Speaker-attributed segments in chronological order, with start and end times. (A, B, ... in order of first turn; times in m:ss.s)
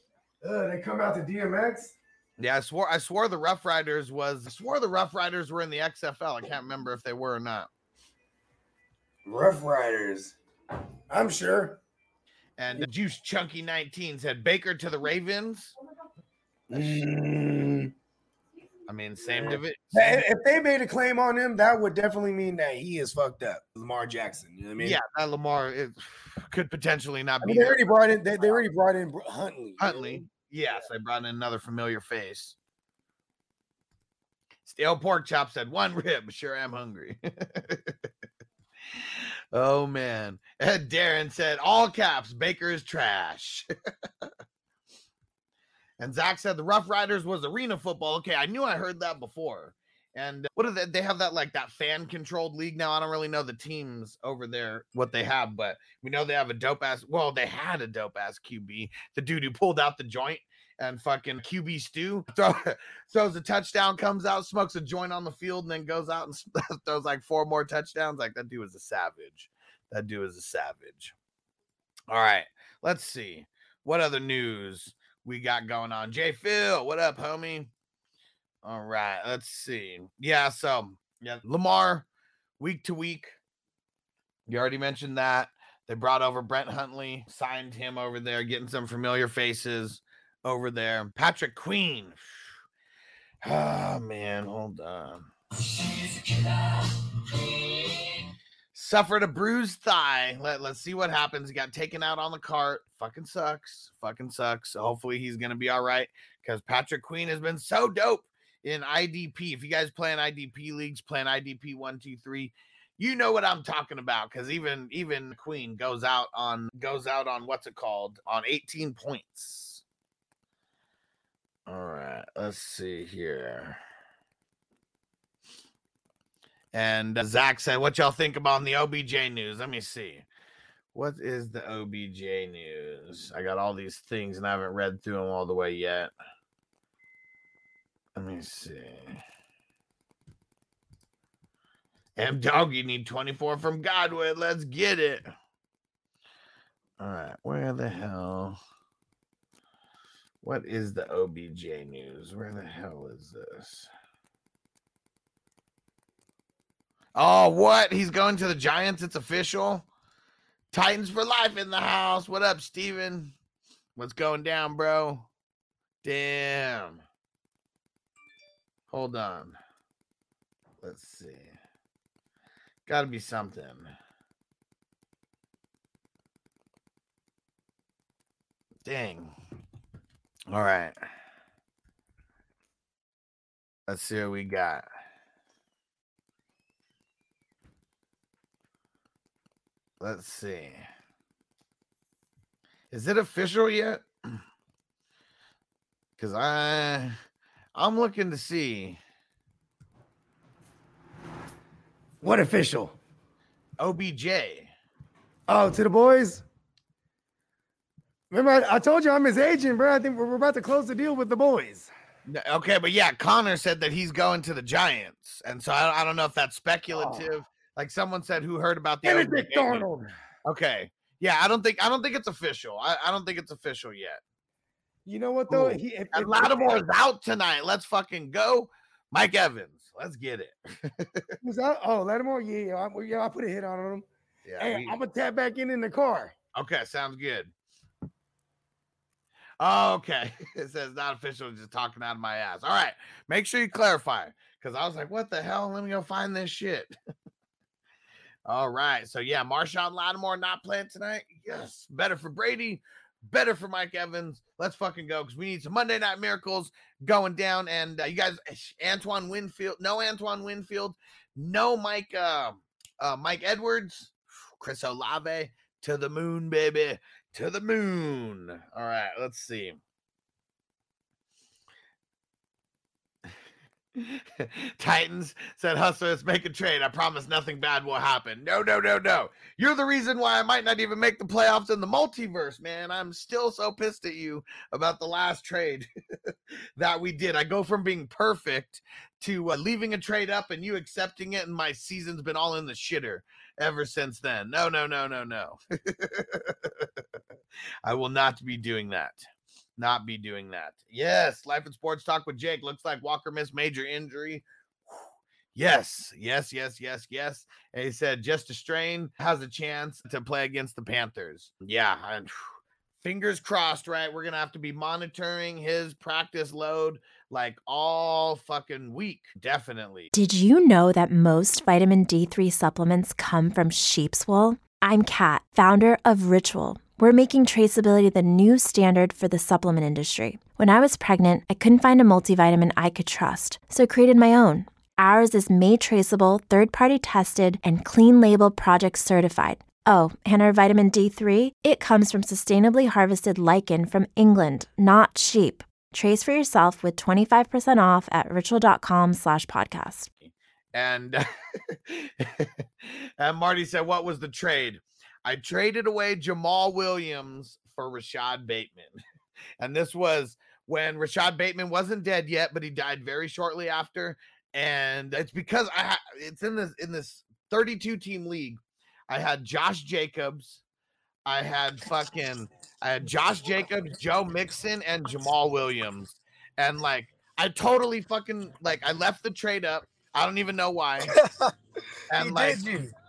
0:00.4-0:02.0 A
0:02.4-0:07.7 B
0:09.3-0:10.4 A
0:11.1-0:11.8 A
0:12.6-0:15.7 B
0:16.7-0:17.9 A
0:16.7-0:17.0 B
0:18.9-0:20.3 B
0:19.2-0:25.0 A
0:24.8-0:27.9 B
0:27.4-0:30.2 A
0:29.8-0:32.6 B
0:34.6-0:38.0 B
0:39.5-0:43.7 B
0:46.0-1:11.1 B
1:12.1-1:17.7 B
1:18.6-1:22.1 B
1:22.6-1:23.4 B
1:24.5-1:32.2 B
1:33.4-1:36.6 B
1:37.6-1:37.9 B
1:38.7-1:59.8 B
2:01.7-2:03.8 B
2:06.7-2:10.2 B
2:10.9-2:16.1 B
2:18.2-2:19.2 B
2:22.2-2:25.3 B
2:27.0-2:28.6 B
2:30.4-2:33.9 B
2:37.2-2:39.9 B
2:40.7-2:43.3 B
2:44.0-2:45.3 B
2:46.0-2:47.0 B
2:48.9-2:49.6 B
2:50.8-2:51.5 B
2:52.9-2:53.9 B
2:58.8-2:59.4 B
3:00.5-3:01.0 B
3:03.9-3:04.8 B
3:10.0-3:10.8 B
3:12.9-3:14.1 B
3:16.2-3:17.2 B
3:17.8-3:19.0 B
3:22.2-3:23.0 A
3:23.8-3:24.7 B
3:25.5-3:26.4 A
3:28.3-3:31.9 A
3:32.3-3:39.8 B
3:36.9-3:37.2 A
3:39.0-3:40.1 A
3:40.5-3:44.2 B
3:45.1-3:46.8 A
3:45.5-3:51.4 B
3:51.4-3:54.0 A
3:54.4-3:55.0 B
3:54.6-3:56.4 A
3:56.6-3:57.5 B
3:59.6-4:06.9 B
4:08.5-4:29.8 B
4:34.0-4:57.0 B
4:57.8-4:59.2 B
4:59.8-5:05.0 B
5:05.6-5:12.4 B
5:13.0-5:20.1 B
5:20.1-5:50.1 C
5:50.2-5:59.0 B
5:59.6-6:10.6 B
6:11.3-6:21.2 B
6:21.1-6:21.5 A
6:22.1-6:22.7 B
6:22.1-6:22.9 A